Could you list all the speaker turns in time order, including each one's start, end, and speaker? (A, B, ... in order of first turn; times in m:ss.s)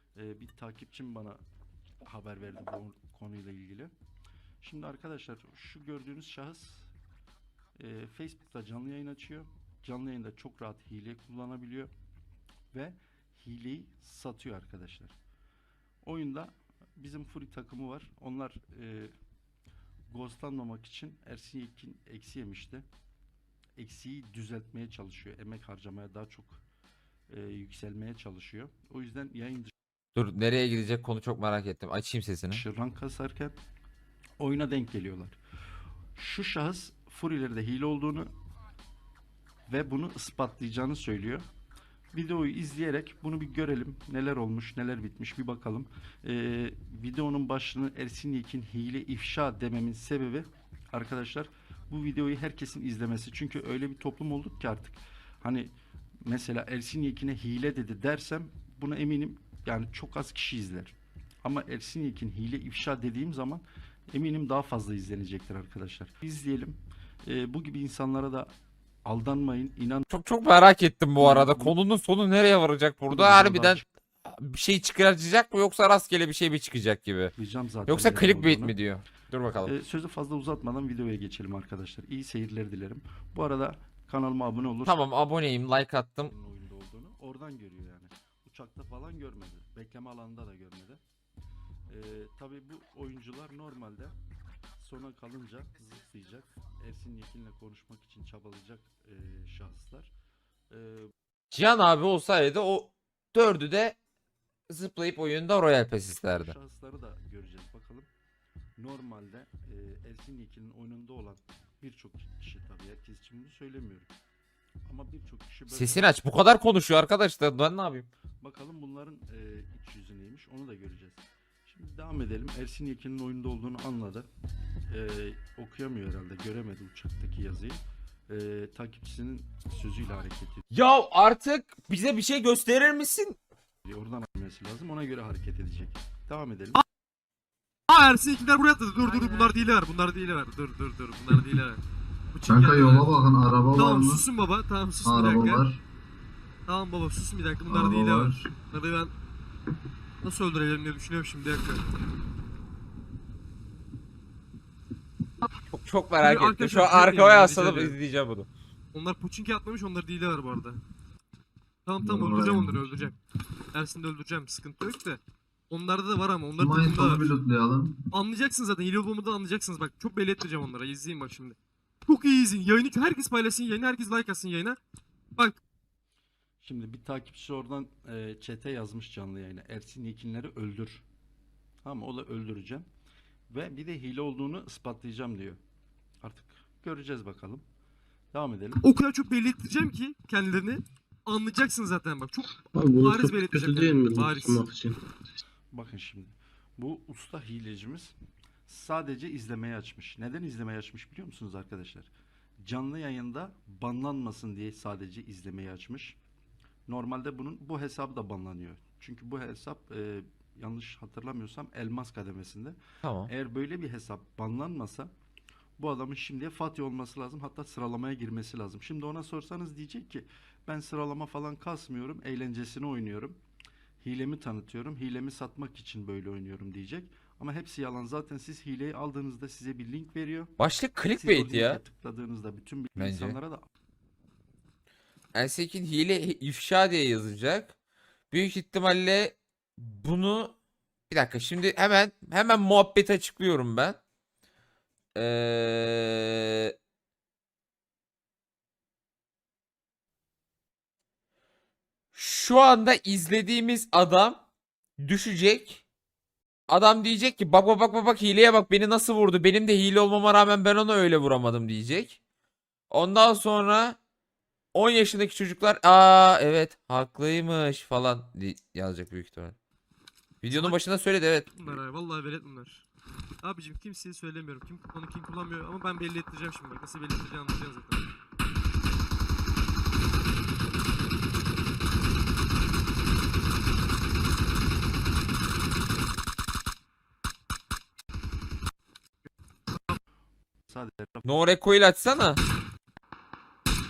0:00.2-0:01.4 A
0:02.1-0:03.9 A
0:04.6-0:06.9 A
0:07.8-0:11.9 A
0:12.7-0:15.1 A
0:16.0-0:19.1 A
0:20.1-0:22.8 A
0:23.8-0:26.6 A
0:27.3-0:29.7 A
0:30.1-0:32.6 B
0:32.5-0:33.6 A
0:34.4-0:35.4 A
0:36.2-0:38.3 A
0:39.7-0:41.4 A
0:42.1-0:55.7 A
0:56.2-1:08.5 A
1:09.1-1:10.0 A
1:10.1-1:17.3 B
1:11.2-1:11.8 A
1:13.1-1:13.8 A
1:17.4-1:18.8 A
1:17.9-1:19.7 B
1:19.7-1:25.0 A
1:24.8-1:26.3 B
1:26.3-1:31.0 A
1:31.9-1:34.2 A
1:34.8-1:40.1 A
1:40.7-1:41.1 A
1:41.5-1:44.0 B
1:44.7-1:46.6 B
1:46.3-1:48.1 A
1:48.8-1:54.1 A
1:54.9-1:56.2 A
1:55.7-1:58.1 B
1:58.4-2:04.3 A
2:04.9-2:10.7 A
2:10.7-2:13.4 B
2:13.8-2:16.8 A
2:17.9-2:21.8 C
2:22.3-2:23.1 C
2:22.5-2:24.2 D
2:23.7-2:25.7 C
2:25.0-2:25.8 D
2:26.7-2:29.1 C
2:27.7-2:28.5 D
2:30.2-2:31.9 C
2:35.7-2:38.5 B
2:36.2-2:38.0 C
2:38.9-2:40.8 C
2:41.8-2:43.2 C
2:42.0-2:42.8 D
2:43.7-2:47.3 C
2:46.6-2:48.0 D
2:48.1-2:54.8 C
2:56.6-3:01.0 A
3:01.8-3:02.8 A
3:03.5-3:05.6 A
3:06.2-3:07.6 A
3:08.3-3:08.8 A
3:08.8-3:14.7 C
3:12.7-3:15.0 E
3:15.7-3:18.1 A
3:18.7-3:22.1 A
3:22.6-3:26.2 A
3:26.9-3:32.8 A
3:33.0-3:33.3 B
3:33.3-3:35.1 A
3:35.8-3:43.4 A
3:44.0-3:50.5 A
3:50.6-3:51.8 B
3:51.1-3:53.7 A
3:53.0-3:53.4 B
3:55.3-3:57.7 B
3:58.3-4:00.6 B
4:01.1-4:04.0 B
4:05.2-4:06.7 B
4:12.1-4:14.4 B
4:15.0-4:15.8 B
4:16.7-4:22.2 B
4:22.9-4:24.0 B
4:24.7-4:29.6 B
4:30.4-4:31.8 B
4:30.5-4:30.8 C
4:31.5-4:32.8 C
4:33.4-4:38.1 C
4:50.7-4:51.3 A
4:51.2-4:52.4 B